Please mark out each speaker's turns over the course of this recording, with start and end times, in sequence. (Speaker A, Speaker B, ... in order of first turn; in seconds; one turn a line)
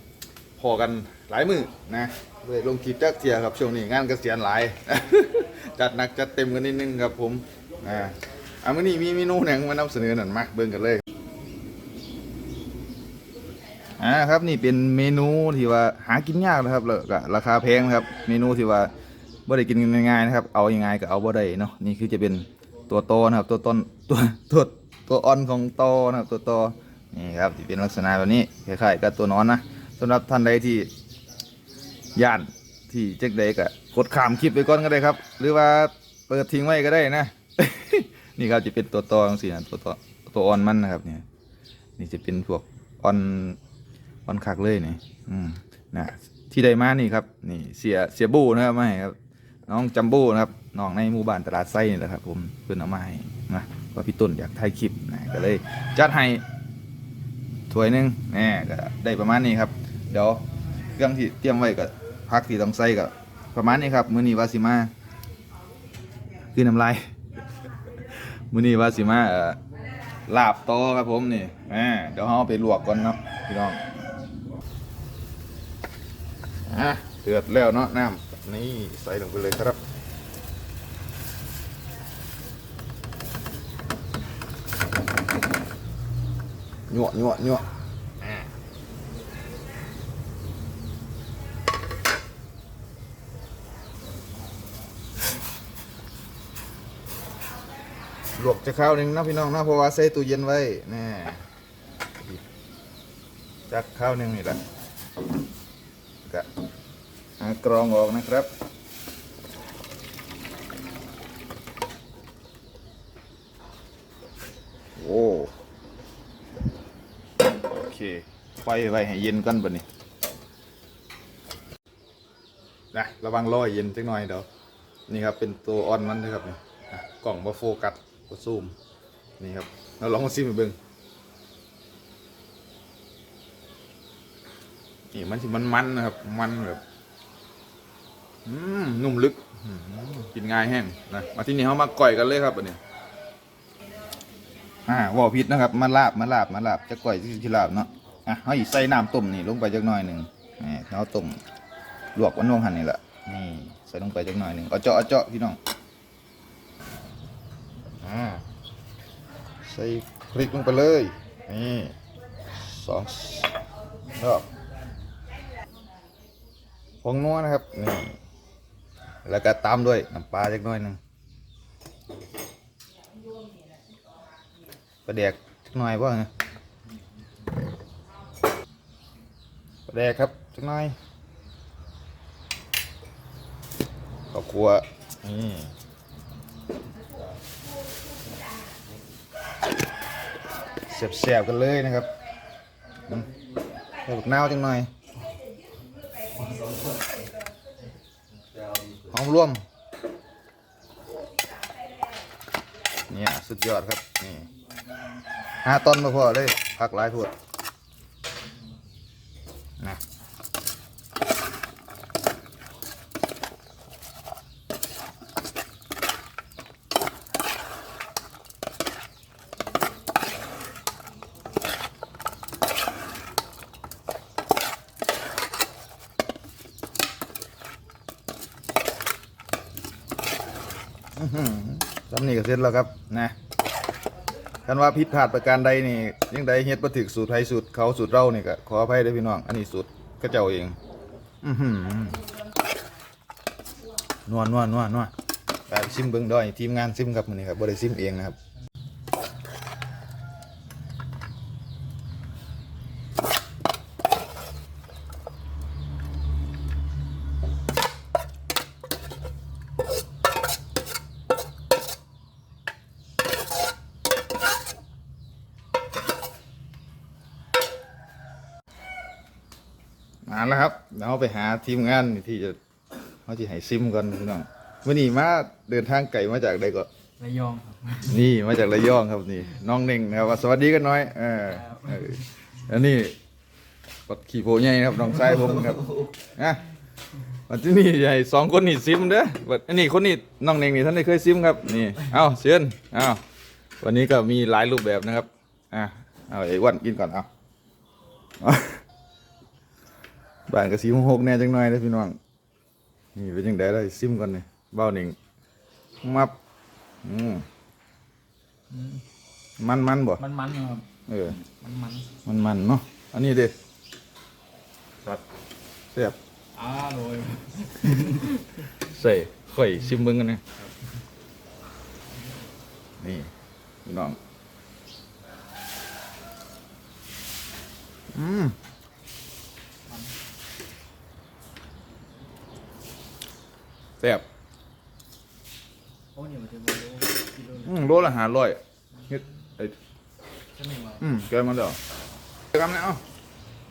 Speaker A: 0.6-11.0
Speaker A: 14.0-18.9
Speaker A: 19.5-30.9
Speaker A: 32.1-41.2
Speaker A: 42.0-43.6
Speaker A: 44.3-56.4
Speaker A: 57.7-60.4
Speaker A: 60.9-64.9
Speaker A: 66.5-67.1
Speaker A: 68.0-69.6
Speaker A: 70.3-73.8
Speaker A: 76.7-79.8
Speaker A: 86.9-87.7
Speaker A: 88.2-88.5
Speaker A: 98.4-101.4
Speaker A: 103.7-104.6
Speaker A: 107.4-108.5
Speaker A: 115.0-115.5
Speaker A: 117.5-119.8
Speaker A: 122.9-124.5
Speaker A: 125.1-128.7
Speaker A: 129.4-130.8
Speaker A: 135.1-136.8
Speaker A: 138.4-142.8
Speaker A: 144.8-151.4
Speaker A: 152.2-155.6
Speaker A: 158.0-158.4
Speaker A: 159.6-161.9
Speaker A: 162.6-163.6
Speaker A: 164.1-164.4
Speaker A: 167.0-168.2
Speaker A: 169.2-171.0
Speaker A: 175.0-176.3
Speaker A: 179.9-180.9
Speaker A: 184.3-185.7
Speaker A: 190.9-192.1
Speaker A: 194.1-194.9
Speaker A: 199.0-199.6
Speaker A: 203.1-204.5
Speaker A: 205.6-207.3
Speaker A: 231.2-233.3
Speaker A: 234.7-240.8
Speaker A: 241.4-242.2
Speaker A: 244.3-245.1
Speaker A: 245.7-248.4
Speaker A: 270.2-272.6
Speaker A: 273.2-276.9
Speaker B: 277.2-278.1
Speaker A: 278.0-283.1
Speaker B: 281.6-282.0
Speaker A: 284.1-286.6
Speaker A: 287.5-293.2
Speaker A: 293.8-297.3
Speaker A: 298.4-298.8
Speaker A: 300.5-302.2
Speaker A: 303.1-305.1
Speaker A: 306.0-306.3
Speaker A: 307.0-307.4
Speaker B: 308.7-309.0
Speaker A: 309.6-310.2
Speaker B: 310.2-310.8
Speaker A: 311.1-311.4
Speaker B: 311.4-312.1
Speaker A: 312.2-313.5
Speaker B: 316.6-318.7
Speaker A: 318.8-320.4
Speaker A: 323.0-323.3
Speaker A: 323.8-324.2
Speaker A: 328.1-328.6
Speaker A: 334.0-334.2
Speaker B: 336.1-337.8
Speaker A: 337.6-339.8
Speaker B: 340.6-341.0
Speaker A: 341.0-341.8
Speaker A: 342.5-343.0